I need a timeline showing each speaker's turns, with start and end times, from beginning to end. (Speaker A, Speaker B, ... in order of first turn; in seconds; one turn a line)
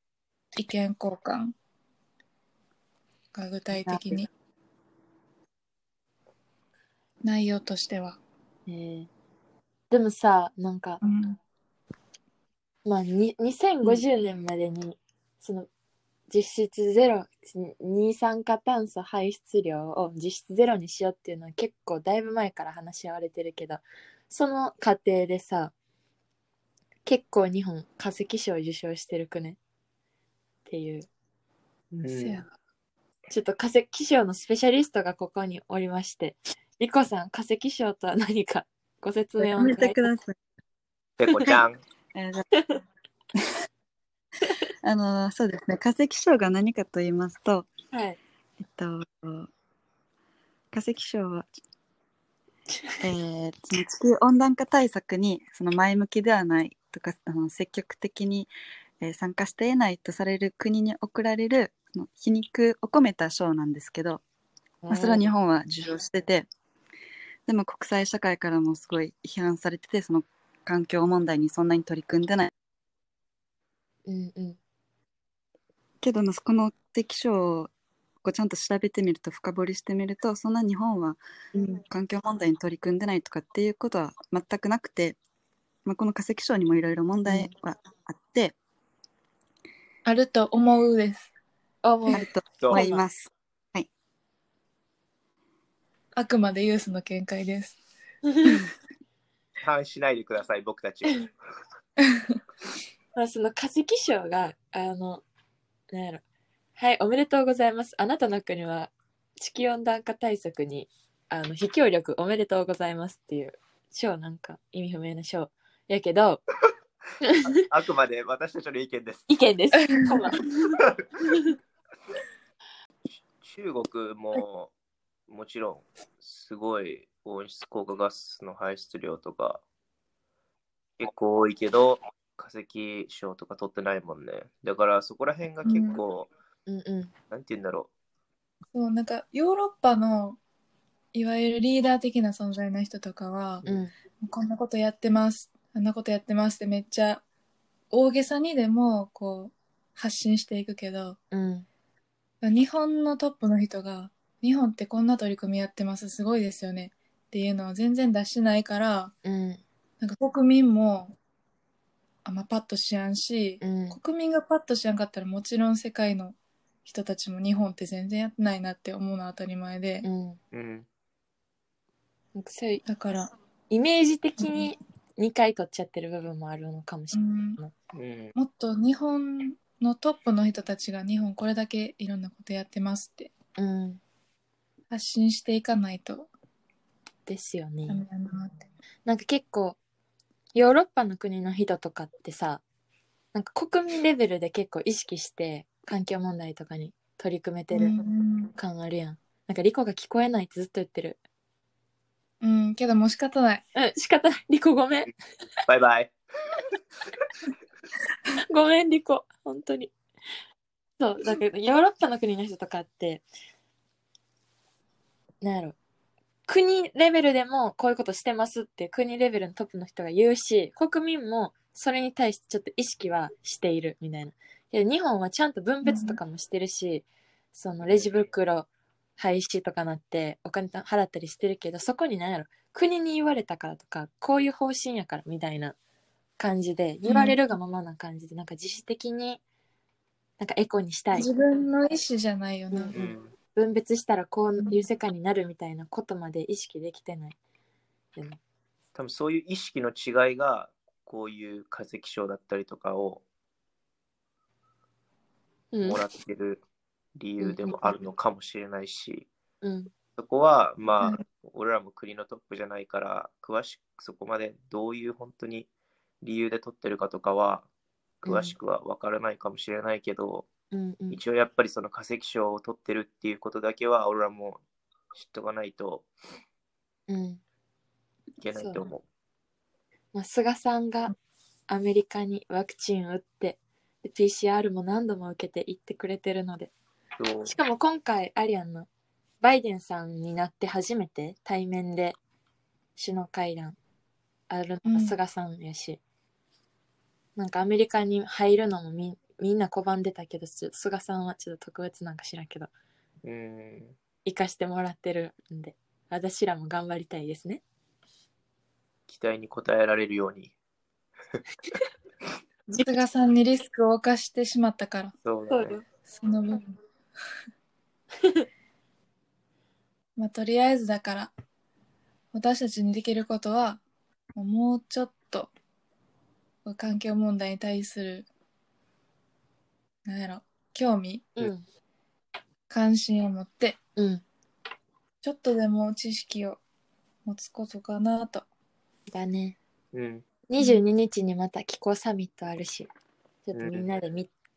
Speaker A: 0.5-1.5
Speaker A: 3.3-4.3
Speaker B: 3.8-4.2
Speaker A: 7.2-8.2
Speaker B: 8.7-9.1
Speaker B: 9.9-11.0
Speaker A: 11.0-11.4
Speaker B: 12.8-15.7
Speaker B: 16.3-25.7
Speaker B: 27.1-29.6
Speaker B: 30.7-31.1
Speaker C: 31.9-32.4
Speaker A: 32.1-32.5
Speaker B: 33.3-40.0
Speaker D: 39.4-40.4
Speaker C: 41.2-41.8
Speaker D: 42.1-42.5
Speaker D: 44.8-47.7
Speaker B: 47.9-48.2
Speaker D: 48.6-49.5
Speaker D: 50.7-51.5
Speaker D: 53.0-64.2
Speaker B: 64.8-65.2
Speaker D: 64.9-66.5
Speaker D: 67.5-72.5
Speaker B: 74.1-74.6
Speaker D: 76.0-77.7
Speaker D: 78.2-81.2
Speaker B: 81.5-81.8
Speaker D: 81.9-85.2
Speaker D: 85.8-88.6
Speaker B: 87.2-87.5
Speaker A: 90.0-91.3
Speaker B: 91.8-93.1
Speaker D: 92.1-93.9
Speaker A: 96.2-97.8
Speaker C: 99.6-101.3
Speaker B: 103.1-105.2
Speaker B: 105.9-106.2
Speaker B: 106.8-116.4
Speaker B: 117.2-117.5
Speaker C: 117.5-119.3
Speaker B: 119.3-121.3
Speaker C: 123.4-124.7
Speaker C: 125.3-129.6
Speaker C: 131.0-136.3
Speaker A: 135.6-136.0
Speaker B: 136.7-137.1
Speaker C: 137.3-137.9
Speaker A: 138.7-140.4
Speaker A: 141.1-143.6
Speaker B: 143.6-143.9
Speaker A: 144.2-147.2
Speaker A: 147.9-151.2
Speaker B: 151.3-151.7
Speaker A: 152.4-159.1
Speaker B: 159.2-159.6
Speaker A: 160.0-161.1
Speaker A: 162.2-170.1
Speaker B: 163.6-164.0
Speaker B: 170.0-170.4
Speaker C: 170.5-170.9
Speaker B: 172.3-172.8
Speaker A: 172.8-173.3
Speaker B: 173.7-177.7
Speaker A: 174.4-174.7
Speaker A: 177.1-177.6
Speaker C: 177.9-178.3
Speaker A: 178.4-183.3
Speaker B: 183.6-184.0
Speaker A: 184.9-186.3
Speaker B: 187.2-188.0
Speaker A: 187.9-188.6
Speaker B: 189.1-189.8
Speaker B: 190.5-192.6
Speaker B: 193.3-198.0
Speaker A: 197.7-198.5
Speaker B: 198.6-201.2
Speaker A: 202.4-203.6
Speaker B: 203.8-205.1
Speaker C: 205.7-206.1
Speaker B: 208.4-209.9
Speaker B: 211.0-213.2
Speaker B: 215.4-215.8
Speaker B: 216.5-235.8
Speaker A: 225.8-226.2
Speaker C: 227.8-228.2
Speaker B: 236.4-239.4
Speaker A: 237.1-237.4
Speaker B: 240.4-241.3
Speaker A: 241.1-243.1
Speaker B: 242.7-243.0
Speaker C: 242.9-243.3
Speaker B: 243.6-247.4
Speaker A: 244.6-244.8
Speaker C: 248.9-253.2
Speaker B: 255.7-256.0
Speaker C: 255.8-256.6
Speaker C: 257.2-259.3
Speaker B: 257.4-257.9
Speaker B: 259.6-259.9
Speaker C: 260.2-265.7
Speaker C: 266.2-267.7
Speaker C: 268.2-270.5
Speaker B: 268.2-268.6
Speaker B: 270.7-271.2
Speaker C: 271.1-274.6
Speaker C: 275.1-276.1
Speaker B: 277.1-277.4
Speaker C: 278.4-279.0
Speaker B: 278.5-278.8
Speaker B: 280.1-281.1
Speaker B: 281.7-286.7
Speaker C: 287.2-287.6
Speaker B: 287.5-288.9
Speaker B: 289.4-292.2
Speaker B: 293.0-293.8
Speaker B: 294.5-296.0
Speaker A: 294.9-295.2
Speaker B: 297.4-302.7
Speaker C: 303.2-303.9
Speaker B: 304.2-307.6
Speaker C: 309.1-310.5
Speaker A: 312.8-315.1
Speaker C: 315.2-315.8
Speaker B: 315.5-315.9
Speaker A: 316.1-316.8
Speaker A: 320.2-321.3
Speaker A: 322.3-323.8
Speaker A: 324.4-325.5
Speaker A: 326.6-328.3
Speaker A: 330.1-331.4
Speaker B: 331.4-331.6
Speaker A: 332.7-333.8
Speaker B: 334.0-334.2
Speaker A: 335.2-336.6
Speaker A: 337.2-338.4
Speaker B: 339.1-339.6
Speaker C: 339.9-340.3
Speaker B: 340.5-342.9
Speaker B: 343.4-344.3
Speaker C: 343.5-343.9